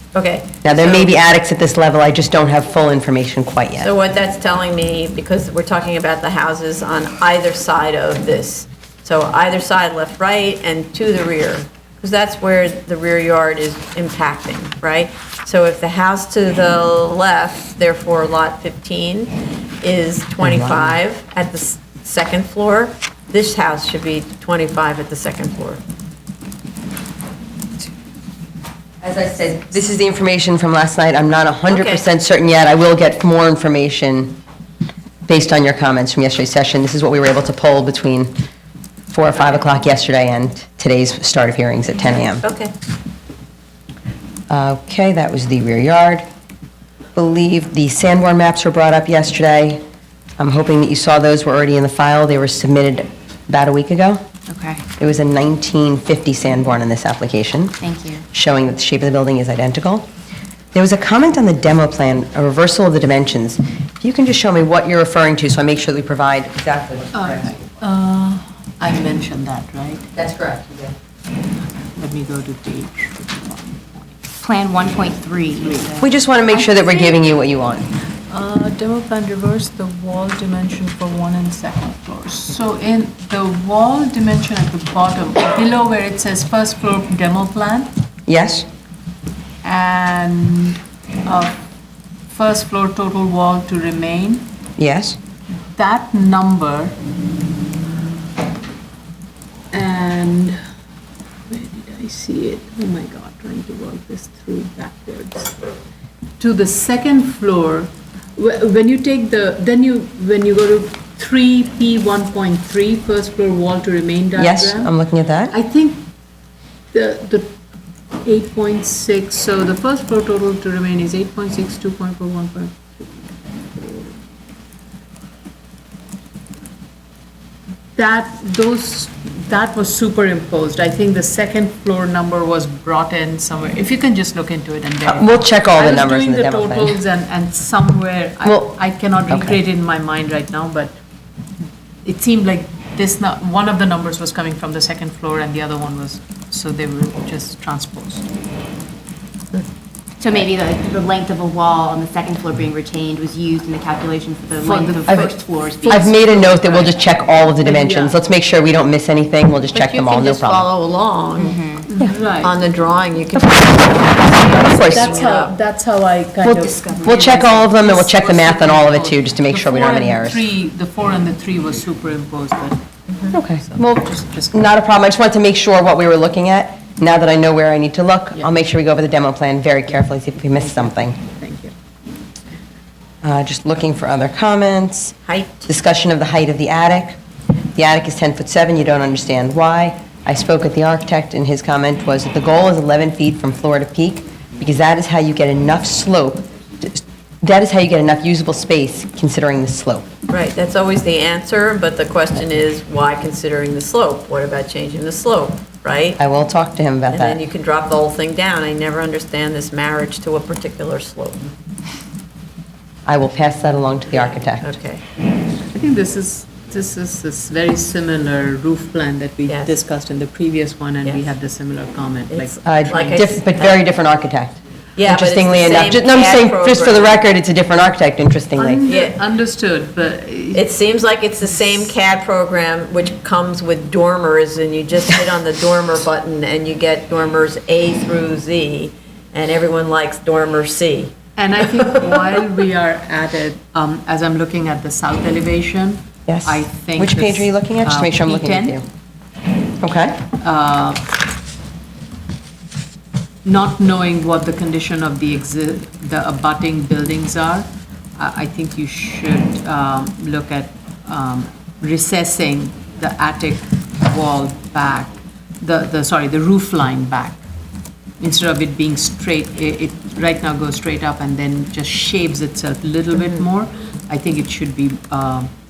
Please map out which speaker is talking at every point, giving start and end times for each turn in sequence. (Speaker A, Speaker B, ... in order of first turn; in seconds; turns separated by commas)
Speaker A: 0.1-1.1, Speaker B: 0.6-3.9, Speaker A: 3.8-25.8, Speaker B: 20.4-20.9, Speaker B: 29.0-34.4, Speaker A: 31.7-32.0, Speaker B: 35.3-38.4, Speaker B: 39.1-42.5, Speaker A: 42.4-42.7, Speaker B: 44.5-46.2, Speaker B: 47.2-49.8, Speaker B: 50.4-54.2, Speaker C: 54.5-54.8, Speaker B: 55.0-57.8, Speaker C: 57.8-58.2, Speaker B: 58.3-60.1, Speaker B: 60.7-67.7, Speaker D: 67.1-70.1, Speaker B: 70.2-71.0, Speaker D: 71.8-74.2, Speaker C: 74.4-75.9, Speaker D: 75.6-76.1, Speaker B: 76.0-77.9, Speaker C: 76.8-77.1, Speaker D: 78.3-87.9, Speaker B: 88.3-88.7, Speaker D: 89.6-91.6, Speaker D: 92.3-94.5, Speaker B: 94.8-95.2, Speaker D: 95.8-97.0, Speaker D: 99.7-100.6, Speaker D: 101.5-105.5, Speaker D: 106.4-114.9, Speaker B: 114.4-115.5, Speaker D: 115.5-116.0, Speaker D: 116.9-117.5, Speaker D: 118.2-124.2, Speaker D: 128.0-141.0, Speaker B: 135.1-137.0, Speaker B: 138.4-139.6, Speaker D: 142.1-148.2, Speaker C: 150.2-156.1, Speaker D: 154.6-158.2, Speaker B: 155.9-160.7, Speaker A: 159.7-161.6, Speaker C: 161.4-161.9, Speaker D: 161.9-162.6, Speaker A: 162.4-165.5, Speaker B: 163.3-163.7, Speaker B: 164.4-165.3, Speaker D: 164.7-172.8, Speaker B: 166.4-170.4, Speaker C: 166.7-167.5, Speaker A: 173.1-173.4, Speaker B: 173.3-181.2, Speaker D: 173.5-174.7, Speaker D: 180.6-181.7, Speaker B: 183.2-185.2, Speaker A: 185.2-185.7, Speaker B: 185.7-187.2, Speaker B: 187.8-200.1, Speaker A: 200.3-206.2, Speaker B: 206.2-207.4, Speaker A: 207.1-211.5, Speaker B: 213.1-214.7, Speaker A: 214.1-215.0, Speaker D: 215.7-223.2, Speaker A: 219.5-219.8, Speaker A: 222.3-223.8, Speaker B: 222.7-228.8, Speaker A: 225.0-227.2, Speaker D: 228.6-230.7, Speaker A: 228.9-229.2, Speaker A: 230.5-241.2, Speaker D: 241.4-248.8, Speaker A: 241.7-242.3, Speaker B: 246.3-248.8, Speaker B: 249.8-250.2, Speaker D: 250.4-251.1, Speaker D: 253.4-267.4, Speaker D: 268.2-275.5